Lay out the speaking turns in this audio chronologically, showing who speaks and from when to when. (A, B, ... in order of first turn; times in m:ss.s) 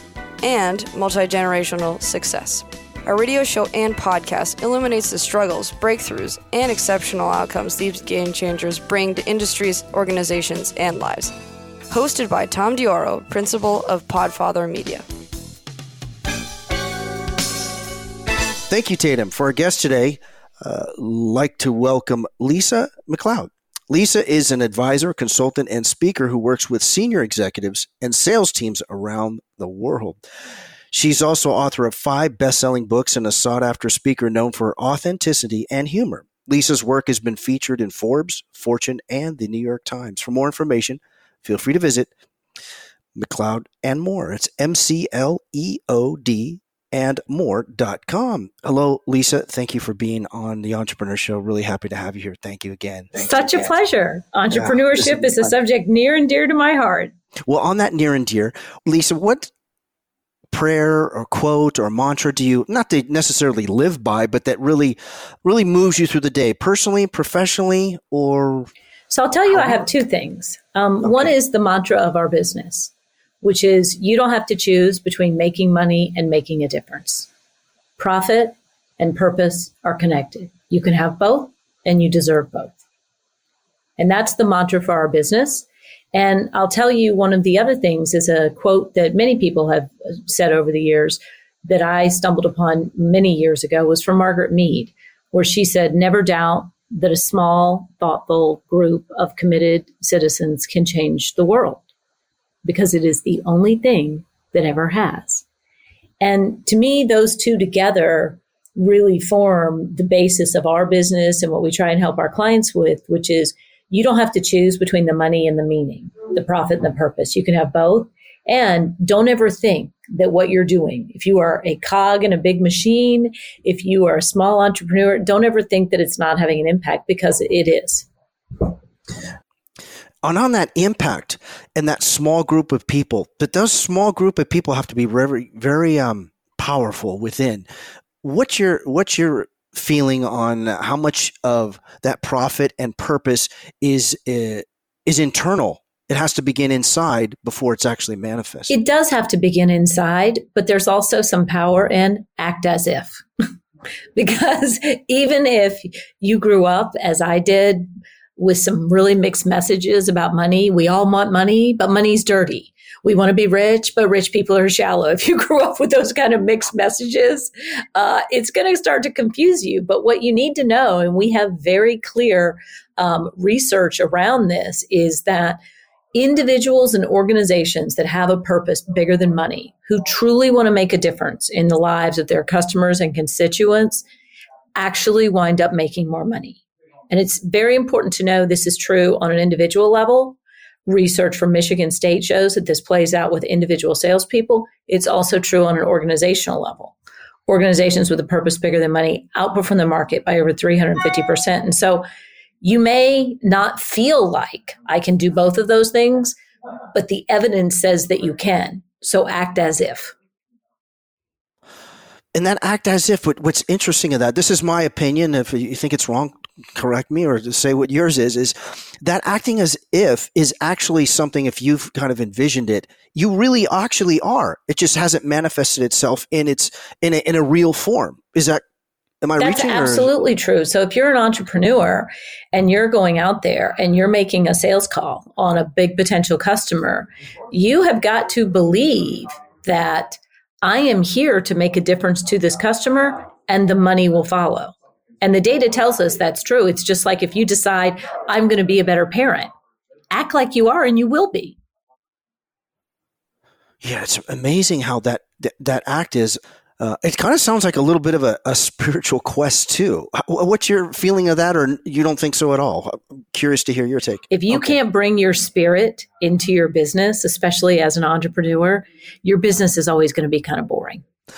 0:00.4-0:11.3 A
0:11.9-0:15.0 A
0:18.7-0:30.2 B
0:30.9-0:42.1 B
0:43.1-0:53.8 B
0:53.2-0:57.1 C
0:54.5-0:55.5 B
0:57.5-0:59.5 B
1:00.5-1:08.7 B
1:09.1-1:17.3 C
1:11.0-1:11.3 B
1:18.0-1:22.8 C
1:24.0-1:41.8 C
1:42.6-1:45.4 C
1:46.2-2:08.1 C
2:10.2-2:17.7 B
2:18.2-2:28.7 B
2:28.7-2:33.2 C
2:34.2-2:55.6 C
2:56.1-3:04.0 C
3:04.8-3:16.9 C
3:17.5-3:22.0 C
3:22.6-3:26.3 C
3:26.9-3:30.1 C
3:32.3-3:48.6 B
3:49.2-3:50.1 B
3:49.4-4:09.5 C
4:10.1-4:11.6 C
4:13.8-4:24.7 B
4:24.3-4:31.0 C